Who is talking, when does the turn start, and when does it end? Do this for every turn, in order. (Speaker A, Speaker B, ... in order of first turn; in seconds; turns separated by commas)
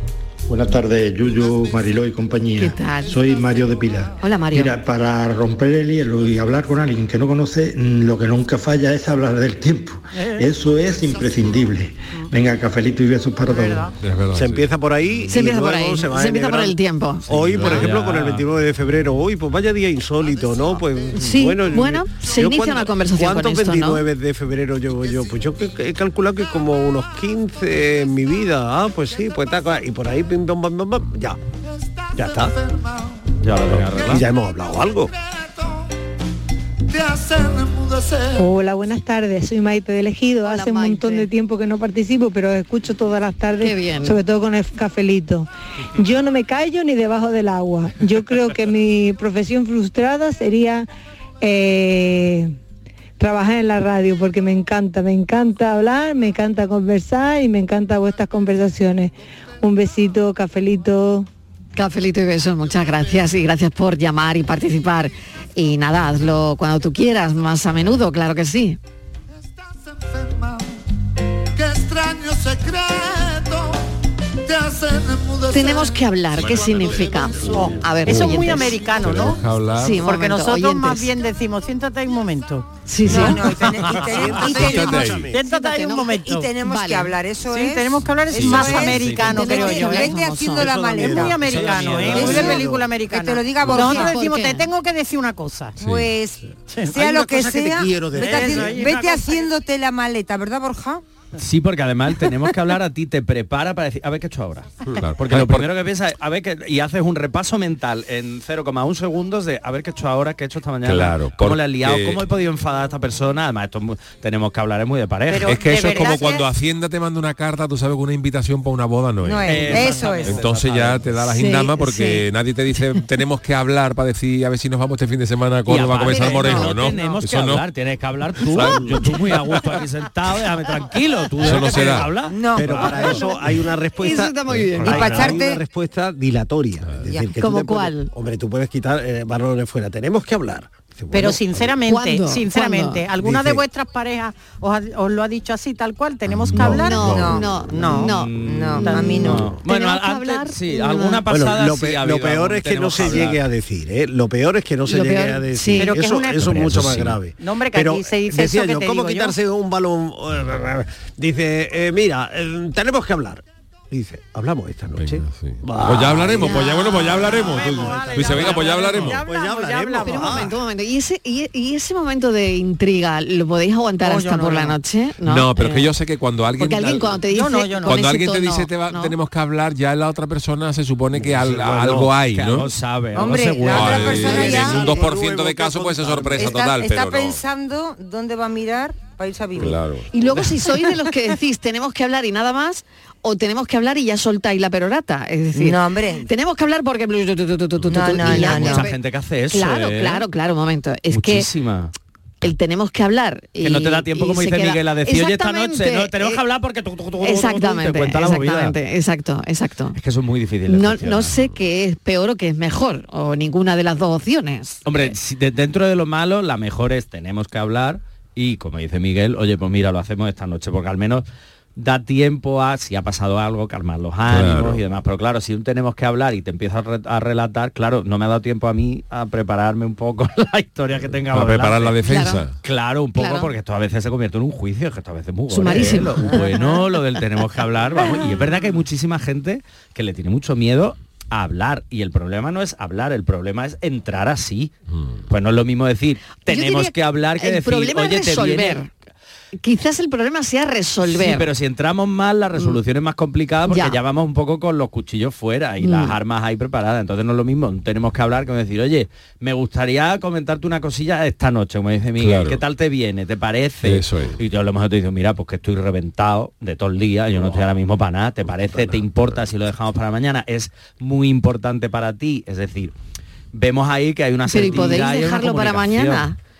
Speaker A: 0.5-13.9, Speaker B: 1.2-2.0, Speaker C: 2.6-3.2, Speaker B: 2.9-4.4, Speaker C: 4.2-4.8, Speaker D: 10.1-10.5, Speaker B: 10.6-11.8, Speaker D: 13.4-13.9, Speaker E: 14.0-14.7, Speaker F: 14.3-31.4, Speaker C: 15.3-17.8, Speaker G: 17.4-18.4, Speaker B: 20.2-21.1, Speaker C: 21.1-24.0, Speaker B: 25.0-25.3, Speaker B: 31.6-33.3, Speaker F: 32.1-32.5, Speaker G: 33.4-34.2, Speaker F: 33.6-35.1, Speaker B: 35.1-35.9, Speaker B: 36.9-38.5, Speaker H: 38.4-50.9, Speaker C: 40.4-41.3, Speaker C: 43.6-44.2, Speaker H: 51.4-52.5, Speaker H: 53.2-61.2, Speaker C: 61.8-68.8, Speaker B: 69.5-70.8, Speaker B: 71.5-73.8, Speaker B: 74.5-77.9, Speaker C: 75.5-78.8, Speaker D: 77.5-84.3, Speaker E: 77.6-80.0, Speaker C: 79.8-81.1, Speaker C: 82.8-83.5, Speaker E: 83.0-83.3, Speaker I: 83.0-94.2, Speaker F: 84.0-85.4, Speaker E: 84.5-85.3, Speaker D: 85.3-86.5, Speaker C: 85.5-87.1, Speaker D: 87.5-90.2, Speaker G: 88.3-89.5, Speaker C: 88.4-90.7, Speaker F: 90.5-92.9, Speaker D: 91.0-95.8, Speaker G: 91.5-92.4, Speaker C: 93.7-94.7, Speaker E: 95.8-96.1, Speaker I: 95.8-101.0, Speaker D: 96.7-97.0, Speaker F: 97.0-98.9, Speaker D: 98.1-99.5, Speaker G: 101.4-116.0, Speaker E: 105.0-105.7, Speaker E: 110.8-112.2, Speaker D: 115.3-116.5, Speaker E: 115.4-127.6, Speaker I: 119.2-120.2, Speaker G: 119.4-121.0, Speaker D: 119.7-120.3, Speaker C: 121.3-122.2, Speaker G: 125.7-133.1, Speaker C: 126.2-127.1, Speaker E: 128.4-129.2, Speaker E: 131.4-132.1, Speaker I: 132.3-133.2, Speaker F: 132.6-141.7, Speaker C: 134.0-135.4, Speaker I: 134.8-135.6, Speaker C: 137.4-138.1, Speaker D: 141.1-148.1, Speaker C: 141.8-143.0, Speaker F: 143.2-143.6, Speaker E: 146.3-147.3, Speaker C: 146.6-151.2, Speaker I: 146.9-149.4, Speaker G: 148.1-153.4, Speaker D: 148.8-149.3, Speaker F: 151.3-170.6, Speaker C: 154.9-156.0, Speaker D: 155.8-156.6, Speaker G: 156.5-157.2, Speaker D: 157.4-159.4, Speaker E: 164.9-169.2, Speaker C: 166.4-167.0, Speaker D: 166.7-170.5, Speaker C: 170.0-175.8, Speaker D: 174.0-174.8, Speaker E: 175.2-177.2, Speaker D: 175.6-175.8, Speaker C: 176.6-179.1, Speaker D: 177.3-178.0, Speaker E: 177.8-182.7, Speaker F: 181.2-182.1, Speaker G: 182.3-184.8, Speaker I: 183.1-185.2, Speaker E: 183.6-187.4, Speaker F: 184.3-186.5, Speaker I: 186.3-189.8, Speaker E: 189.6-190.1, Speaker C: 190.1-199.0, Speaker I: 195.5-196.3, Speaker I: 197.9-198.9, Speaker G: 198.2-200.2, Speaker C: 199.5-201.5, Speaker G: 201.1-201.9, Speaker C: 202.4-206.4, Speaker G: 203.6-208.8, Speaker C: 207.2-210.0, Speaker G: 209.9-211.4, Speaker C: 210.7-215.1, Speaker G: 214.8-221.2, Speaker G: 221.8-232.0, Speaker E: 224.2-224.8, Speaker E: 231.3-232.5, Speaker C: 232.1-232.4, Speaker G: 232.6-244.7, Speaker C: 233.2-233.5, Speaker C: 235.5-236.7, Speaker C: 238.0-238.4, Speaker G: 245.3-248.8, Speaker C: 246.5-248.9, Speaker C: 249.6-251.5, Speaker G: 251.0-272.9, Speaker C: 253.7-254.0, Speaker C: 255.8-256.1, Speaker E: 262.2-262.6, Speaker E: 263.8-264.4, Speaker F: 268.5-269.1, Speaker G: 273.5-276.3, Speaker C: 274.5-276.4